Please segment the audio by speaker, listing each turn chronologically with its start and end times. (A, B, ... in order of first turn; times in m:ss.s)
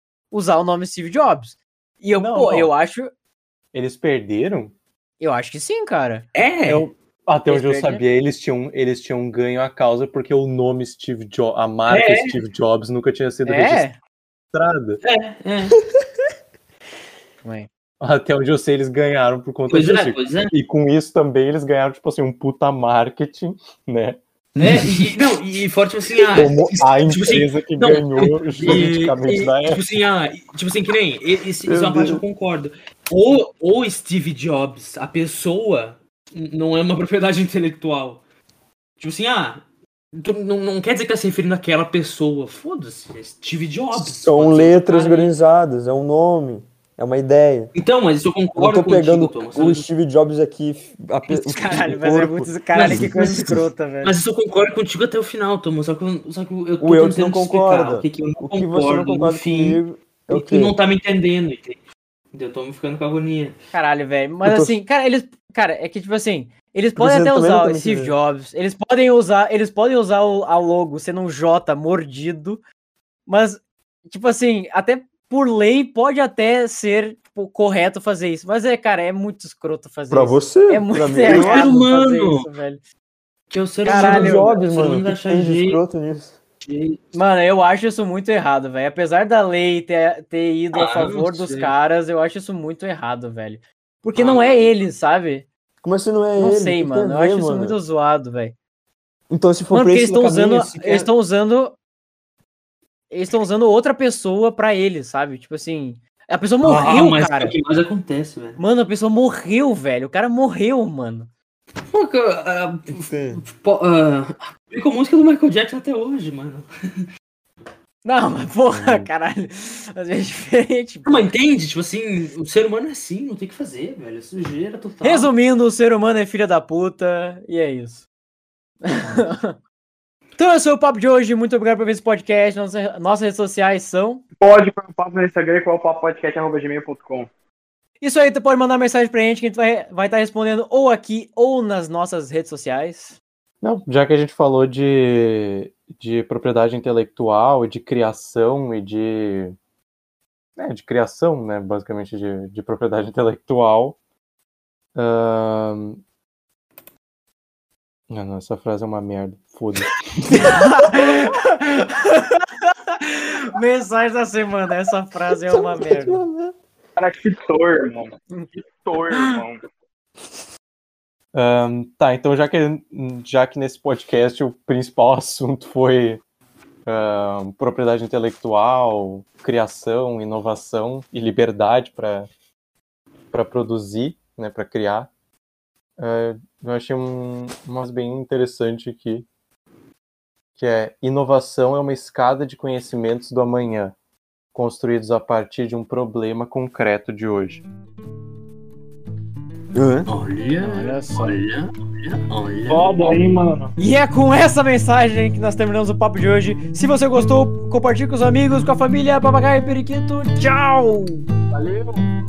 0:00.3-0:03.1 A
0:02.2-0:02.7 B
0:03.7-0:04.7 B
0:05.2-0:06.2 A
0:06.3-0:06.9 C
0:06.6-0:13.8 B
0:07.5-0:08.0 A
0:11.9-0:12.4 C
0:13.4-0:14.0 A
0:14.5-0:15.0 B
0:15.0-0:15.8 C
0:17.4-0:17.7 A
0:18.0-0:24.8 B
0:19.7-0:20.5 C
0:24.6-0:38.2 C
0:26.3-0:29.8 B
0:31.7-0:32.2 D
0:39.0-0:39.6 C
0:40.2-0:45.3 C
0:44.0-0:47.7 D
0:47.7-0:49.9 C
0:48.6-0:53.0 D
0:51.3-0:54.1 A
0:52.7-1:01.8 C
0:56.8-1:00.8 D
1:02.3-1:03.5 C
1:03.7-1:12.6 A
1:04.4-1:04.8 D
1:07.0-1:08.1 D
1:13.3-1:22.8 A
1:20.1-1:21.7 D
1:21.2-1:22.5 C
1:23.5-1:25.8 C
1:23.8-1:24.6 A
1:23.9-1:26.4 D
1:26.6-1:27.1 C
1:27.1-1:35.5 A
1:30.7-1:31.7 C
1:34.2-1:34.6 C
1:35.8-1:37.8 D
1:36.4-1:38.6 A
1:39.3-1:41.1 D
1:39.7-1:41.8 A
1:43.1-1:47.6 A
1:46.6-1:48.6 C
1:48.6-1:51.3 A
1:51.9-1:57.0 C
1:52.9-1:53.4 D
1:58.0-2:01.3 A
2:01.0-2:05.3 C
2:05.0-2:08.1 A
2:08.8-2:09.6 A
2:10.4-2:14.2 A
2:14.4-2:17.3 E
2:18.0-2:23.2 A
2:23.6-2:29.5 B
2:30.6-2:34.0 B
2:34.9-2:36.0 B
2:38.1-2:40.0 B
2:40.3-2:46.2 A
2:45.3-2:46.5 D
2:47.0-2:49.6 E
2:49.1-2:49.4 A
2:51.3-2:56.2 B
2:56.8-3:02.3 B
3:03.3-3:05.1 B
3:06.0-3:09.2 B
3:10.6-3:13.9 B
3:14.5-3:17.6 B
3:19.7-3:20.1 D
3:20.1-3:23.0 C
3:20.6-3:21.4 A
3:22.6-3:23.7 E
3:23.8-3:31.3 A
3:31.5-3:32.0 E